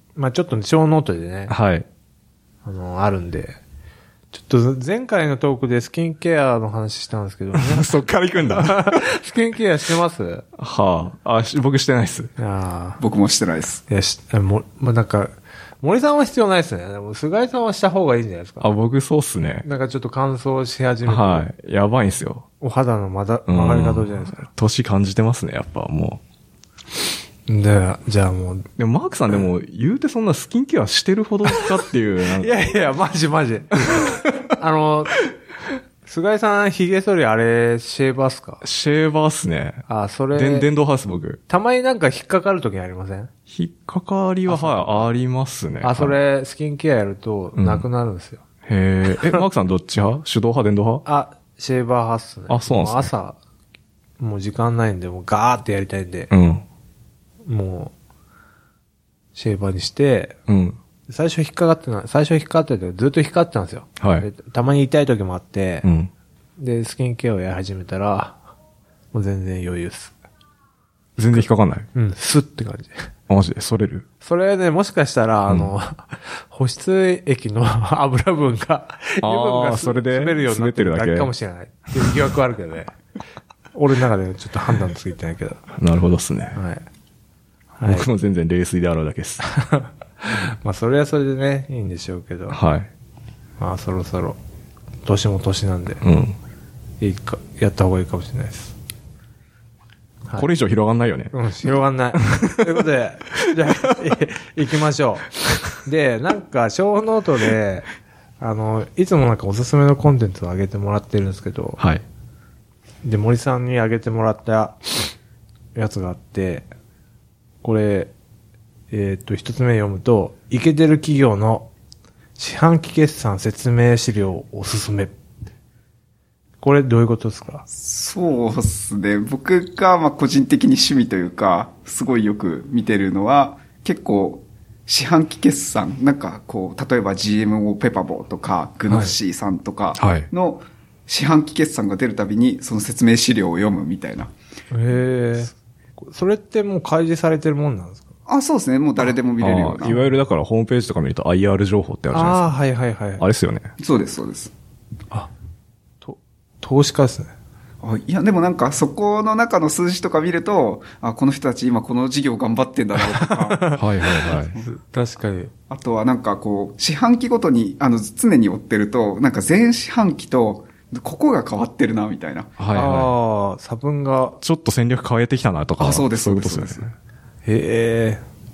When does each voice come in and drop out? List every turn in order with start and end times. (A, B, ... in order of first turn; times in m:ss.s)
0:00.2-0:01.5 A
0:01.5-0:01.9 B
0:02.6-0:03.6 A
0:04.3-0:07.9 A
0:07.5-0:09.0 B
0:08.5-0:10.4 A
0:10.6-0:12.3 B
0:12.4-0:13.0 A
0:13.0-0:13.8 C
0:13.9-0:18.7 A
0:18.6-0:19.6 B
0:19.6-0:21.5 A
0:21.0-0:22.4 B
0:22.6-0:24.5 A
0:23.5-0:26.2 B
0:27.5-0:28.6 A
0:28.8-0:32.5 B
0:32.4-0:35.2 A
0:33.9-0:34.4 B
0:36.0-0:38.6 A
0:38.6-0:41.4 B
0:39.9-0:40.7 A
0:41.5-0:43.3 A
0:43.5-0:46.2 B
0:44.4-0:45.1 A
0:45.8-0:48.4 A
0:47.5-0:47.8 B
0:48.6-0:51.0 B
0:49.1-0:49.4 A
0:51.0-0:53.4 A
0:52.5-0:53.1 B
0:54.2-0:56.3 A
0:56.3-0:56.6 B
0:57.4-0:57.9 A
0:59.3-1:00.4 A
1:00.5-1:00.8 B
1:01.1-1:05.9 A
1:04.0-1:04.3 B
1:05.8-1:06.1 B
1:06.6-1:08.4 A
1:09.1-1:10.1 A
1:11.2-1:11.9 B
1:11.3-1:13.1 A
1:13.3-1:14.0 B
1:14.2-1:22.9 A
1:19.2-1:21.3 B
1:23.7-1:25.6 A
1:25.8-1:26.6 B
1:26.5-1:26.8 A
1:27.8-1:28.1 A
1:27.8-1:29.4 B
1:29.4-1:32.6 A
1:32.5-1:32.9 B
1:33.6-1:34.4 A
1:35.0-1:36.0 A
1:36.0-1:36.4 B
1:37.0-1:38.7 A
1:40.3-1:41.3 B
1:41.3-1:47.9 A
1:42.2-1:42.7 B
1:48.4-1:51.8 A
1:51.8-1:52.0 B
1:53.0-1:54.9 A
1:55.7-1:56.7 A
1:57.6-1:58.1 A
1:58.9-2:01.7 A
2:02.4-2:05.1 A
2:06.6-2:07.6 A
2:07.7-2:24.3 C
2:18.9-2:19.2 A
2:20.0-2:20.3 B
2:24.7-2:28.1 A
2:28.3-2:30.0 C
2:29.4-2:32.5 B
2:29.8-2:30.1 A
2:32.1-2:33.2 A
2:33.2-2:33.7 B
2:33.8-2:34.5 C
2:36.0-2:37.3 A
2:37.8-2:43.8 C
2:43.0-2:45.5 A
2:43.8-2:44.6 B
2:45.7-2:52.5 C
2:52.6-2:53.1 B
2:52.7-2:54.4 A
2:54.4-2:56.9 B
2:55.8-2:56.8 C
2:57.4-2:58.2 A